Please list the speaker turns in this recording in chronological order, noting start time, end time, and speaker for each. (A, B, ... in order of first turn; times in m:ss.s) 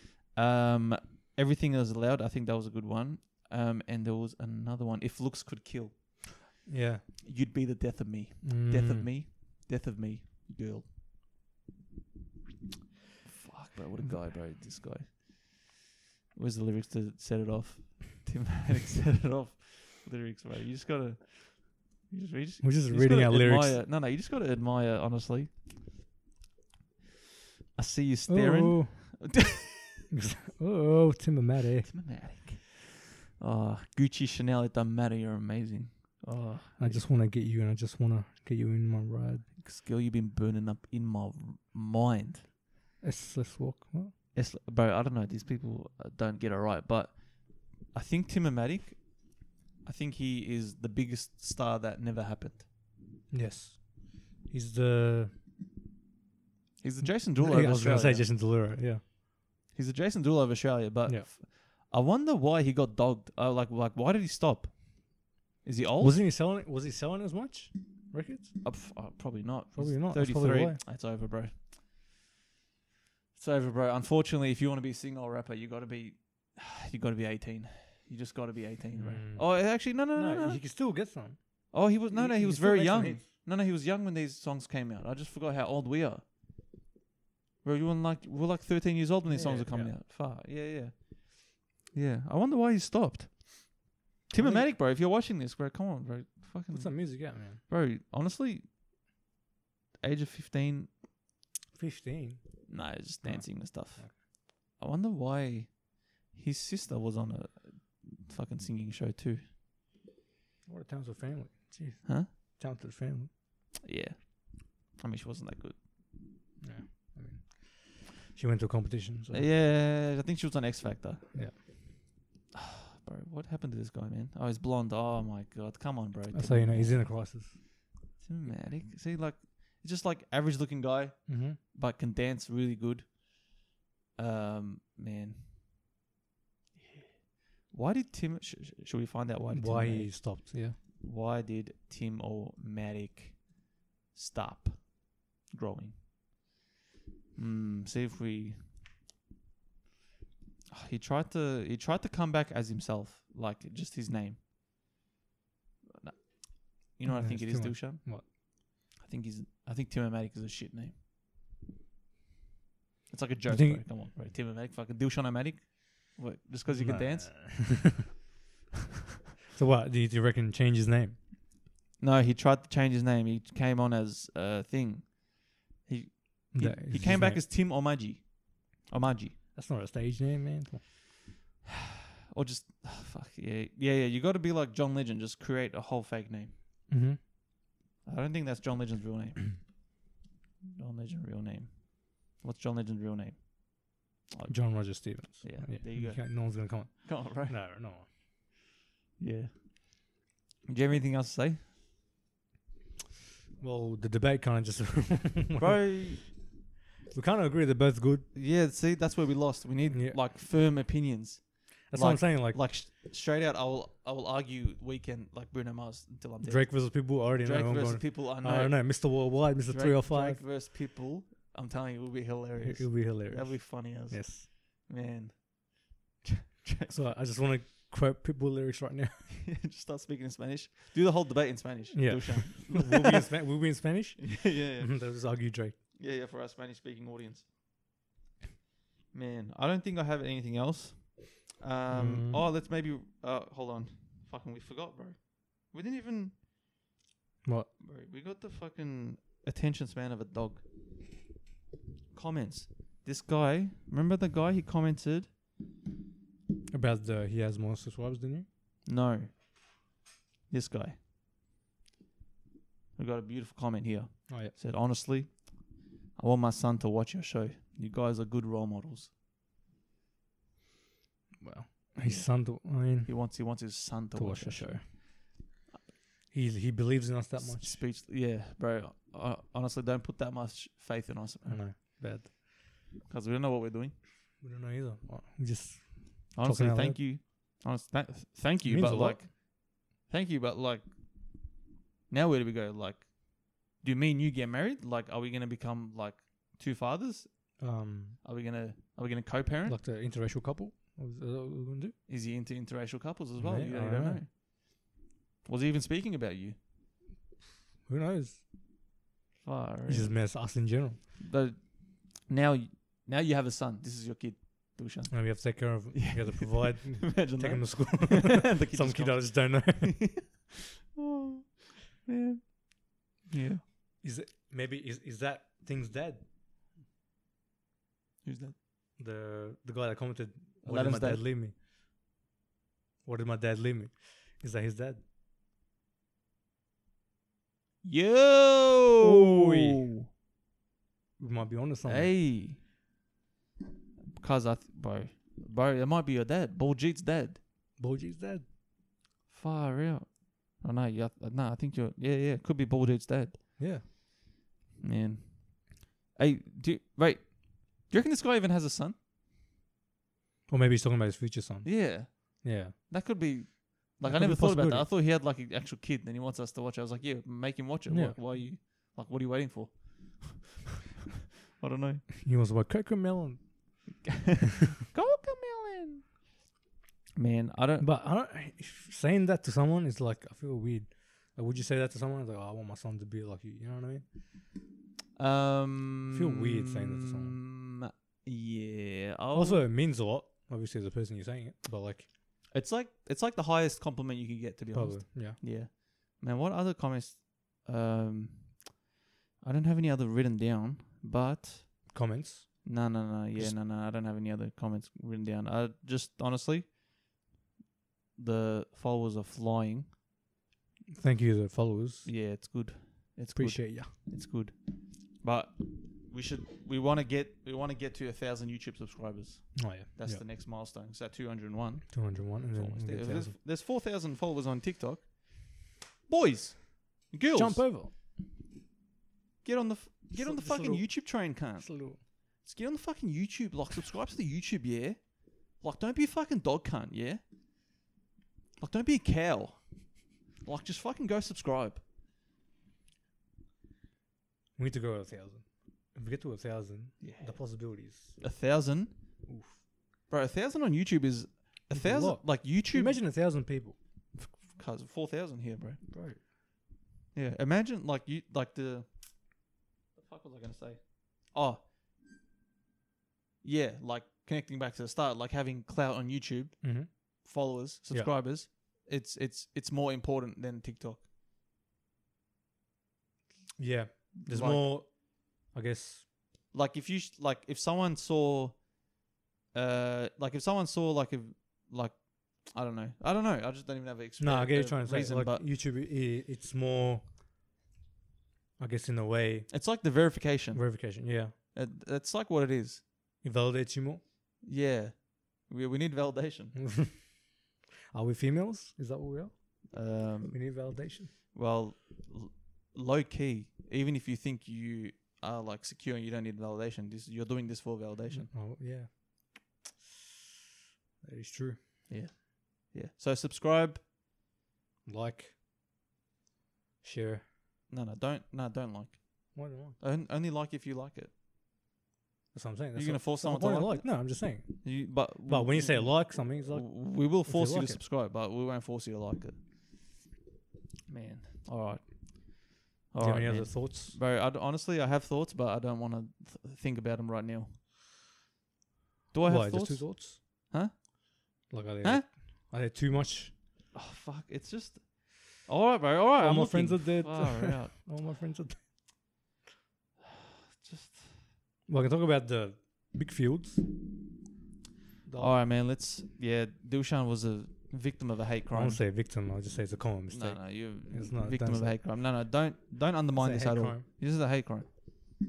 0:00.3-0:06.4 A
0:06.6-0:07.0 B
0:07.2-0:10.9 A
0:08.4-0:09.1 B
0:13.2-0:15.7 A
0:16.3-0:25.5 A
0:22.6-0:23.8 B
0:27.8-0:30.1 A
0:28.3-0:29.2 B
0:30.1-0:32.0 B
0:31.8-0:37.0 A
0:36.8-0:39.5 B
0:39.5-0:42.5 A
0:43.0-0:44.1 B
0:44.3-0:49.3 A
0:49.8-0:52.6 A
0:53.3-0:55.3 B
0:56.8-0:58.3 A
0:57.4-0:59.0 B
0:59.7-1:05.1 A
1:05.6-1:06.2 A
1:06.0-1:08.5 B
1:08.6-1:11.7 A
1:09.7-1:10.8 B
1:13.3-1:20.6 A
1:19.0-1:21.4 B
1:21.7-1:26.2 A
1:21.9-1:23.3 B
1:27.6-1:38.6 A
1:29.3-1:29.9 B
1:34.4-1:34.7 B
1:36.7-1:37.6 B
1:40.0-1:40.9 A
1:41.7-1:42.4 B
1:42.7-1:49.4 A
1:43.2-1:44.2 B
1:50.6-1:53.3 B
1:53.8-1:55.8 A
1:56.6-1:59.5 B
1:59.3-2:01.3 A
2:02.6-2:07.2 A
2:06.3-2:07.6 B
2:08.2-2:13.2 A
2:11.3-2:11.6 B
2:14.2-2:15.5 A
2:16.8-2:17.1 A
2:17.6-2:20.4 A
2:19.5-2:20.8 B
2:21.0-2:23.5 A
2:24.1-2:26.0 A
2:27.4-2:28.6 A
2:30.7-2:34.4 A
2:35.9-2:38.3 A
2:37.0-2:38.3 B
2:39.0-2:41.0 A
2:43.1-2:47.9 A
2:43.5-2:43.8 B
2:46.7-2:48.0 B
2:49.5-2:51.2 B
2:52.0-2:59.4 A
2:56.5-2:57.4 B
2:59.5-3:00.8 B
3:02.3-3:06.5 A
3:06.9-3:07.2 B
3:08.0-3:09.8 A
3:10.8-3:17.6 A
3:14.5-3:18.0 B
3:19.2-3:19.6 A
3:20.7-3:21.6 A
3:23.6-3:25.8 B
3:25.6-3:26.2 A
3:27.1-3:28.3 B
3:28.3-3:47.1 A
3:29.9-3:30.2 B
3:31.9-3:32.6 B
3:36.4-3:40.4 B
3:42.6-3:44.5 B
3:46.9-3:49.3 B
3:49.4-3:53.3 A
3:51.9-3:55.8 B
3:54.2-3:55.1 A
3:56.0-3:57.4 A
3:59.1-4:06.4 A
4:01.9-4:02.4 B
4:07.4-4:07.7 B
4:07.8-4:10.6 A
4:12.1-4:15.3 A
4:16.7-4:18.4 B
4:18.8-4:19.3 A
4:20.5-4:21.0 A
4:23.0-4:29.1 A
4:24.3-4:24.5 B
4:31.4-4:33.3 B
4:32.0-4:35.1 A
4:34.1-4:34.9 B
4:36.3-4:37.8 B
4:37.4-4:42.0 A
4:41.4-4:42.3 B
4:43.0-4:44.0 A
4:44.4-4:47.0 B
4:46.3-4:50.9 A
4:48.6-4:49.2 B
4:52.1-4:57.6 A
4:57.6-4:58.2 B
4:58.2-4:59.8 A
4:59.6-5:01.9 B
5:02.1-5:04.3 A
5:03.4-5:04.2 B
5:05.4-5:06.6 A
5:07.8-5:08.4 B
5:09.4-5:10.4 A
5:09.9-5:11.0 B
5:11.2-5:23.6 A
5:15.1-5:20.1 B
5:24.0-5:26.2 B
5:28.2-5:28.5 A
5:29.0-5:31.5 B
5:30.6-5:31.2 A
5:33.0-5:35.0 B
5:37.8-5:40.0 A
5:39.0-5:39.8 B
5:41.2-5:42.1 B
5:41.8-5:42.6 A
5:44.2-5:47.4 A
5:47.8-5:48.4 B
5:49.3-5:53.6 A
5:53.6-5:53.8 B
5:54.8-5:59.0 A
6:00.5-6:02.7 B
6:01.6-6:10.4 A
6:04.0-6:04.9 B
6:07.9-6:08.4 B
6:11.6-6:12.0 A
6:12.2-6:14.0 B
6:14.0-6:16.1 A
6:17.2-6:17.9 A
6:17.8-6:24.1 B
6:25.2-6:29.6 A
6:26.1-6:27.4 B
6:29.3-6:32.1 B
6:32.5-6:38.6 A
6:34.7-6:35.4 B
6:39.4-6:41.9 A
6:41.9-6:42.8 B
6:42.6-6:46.8 A
6:48.2-6:49.9 A
6:50.9-6:52.1 B
6:52.0-7:07.7 A
6:53.3-6:53.9 B
6:59.5-7:00.2 B
7:01.9-7:03.4 B
7:07.3-7:07.9 B
7:09.4-7:11.7 A
7:10.1-7:12.0 B
7:12.4-7:17.2 A
7:18.6-7:21.8 A
7:24.6-7:28.2 B
7:27.0-7:27.6 A
7:28.2-7:28.9 A
7:29.2-7:29.6 B
7:30.1-7:33.0 A
7:31.7-7:33.8 B
7:34.2-7:35.8 A
7:35.9-7:36.2 B
7:37.1-7:39.0 A
7:39.9-7:41.6 A
7:43.4-7:51.0 A
7:46.6-7:46.9 B
7:53.6-7:56.1 B
7:54.1-7:54.7 A
7:56.5-7:58.6 A
7:59.5-8:05.4 A
8:04.2-8:07.1 B
8:08.6-8:09.5 B
8:09.5-8:12.8 A
8:10.5-8:11.3 B
8:13.2-8:14.0 B
8:14.4-8:16.5 A
8:16.5-8:17.1 B
8:17.9-8:21.1 B
8:19.7-8:28.3 A
8:28.1-8:29.9 B
8:31.0-8:31.6 B
8:31.9-8:33.8 A
8:34.8-8:35.4 B
8:36.8-8:37.2 B
8:37.7-8:41.1 A
8:39.3-8:39.8 B
8:42.3-8:47.8 B
8:42.7-8:49.4 A
8:50.9-8:57.5 A
8:53.0-8:54.0 B
8:59.1-9:00.7 A
8:59.3-9:00.2 B
9:01.5-9:03.3 B
9:03.7-9:07.7 A
9:06.2-9:08.6 B
9:10.6-9:11.1 A
9:11.7-9:13.6 B
9:15.0-9:15.4 B
9:15.2-9:18.8 A
9:18.5-9:21.8 B
9:20.1-9:24.7 A
9:23.1-9:23.8 B